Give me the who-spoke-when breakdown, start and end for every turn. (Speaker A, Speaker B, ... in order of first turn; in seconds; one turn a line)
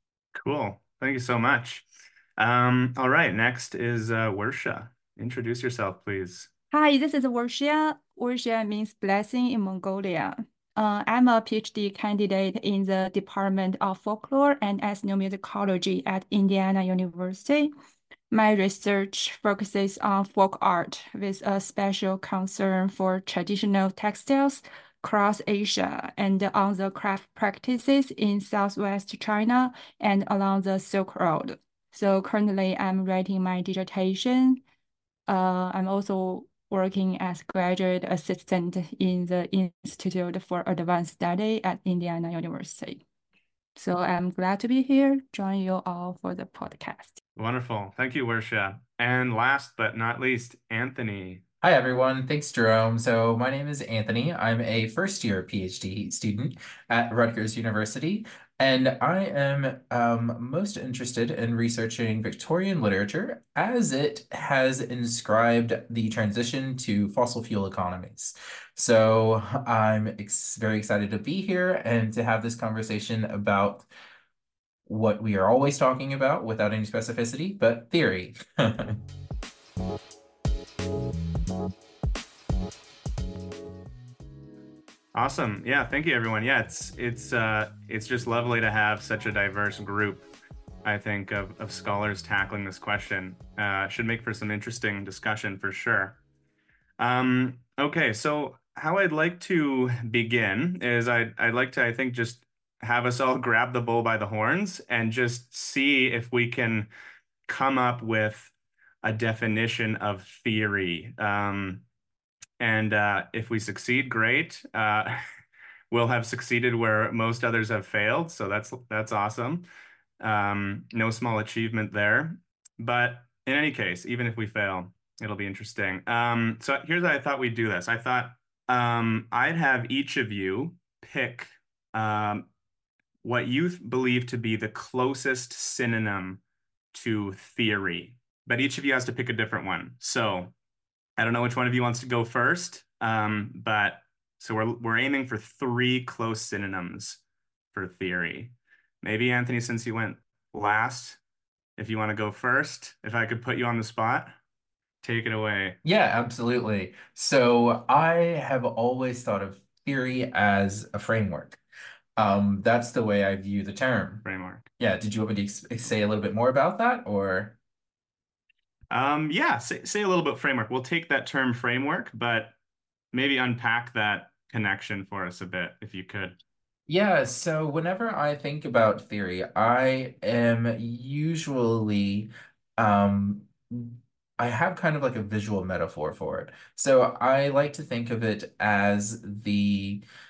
Speaker A: 0.3-6.5
Speaker B: 6.7-17.7
Speaker B: 18.3-34.6
Speaker B: 35.3-43.0
Speaker B: 43.8-47.2
Speaker A: 47.4-51.4
Speaker C: 51.6-73.9
Speaker C: 74.8-79.0
Speaker A: 85.1-90.3
Speaker A: 90.8-96.2
Speaker A: 97.0-106.9
Speaker A: 107.5-108.5
Speaker A: 109.0-111.8
Speaker A: 112.6-115.2
Speaker A: 115.9-119.7
Speaker A: 120.2-132.5
Speaker A: 133.2-136.4
Speaker A: 136.9-140.5
Speaker A: 141.2-147.2
Speaker A: 147.7-151.2
Speaker A: 151.8-154.4
Speaker A: 155.0-155.8
Speaker C: 155.8-161.6
Speaker C: 162.2-164.2
Speaker A: 164.2-164.7
Speaker C: 164.8-167.6
Speaker A: 168.9-172.5
Speaker A: 173.1-176.4
Speaker C: 176.9-190.0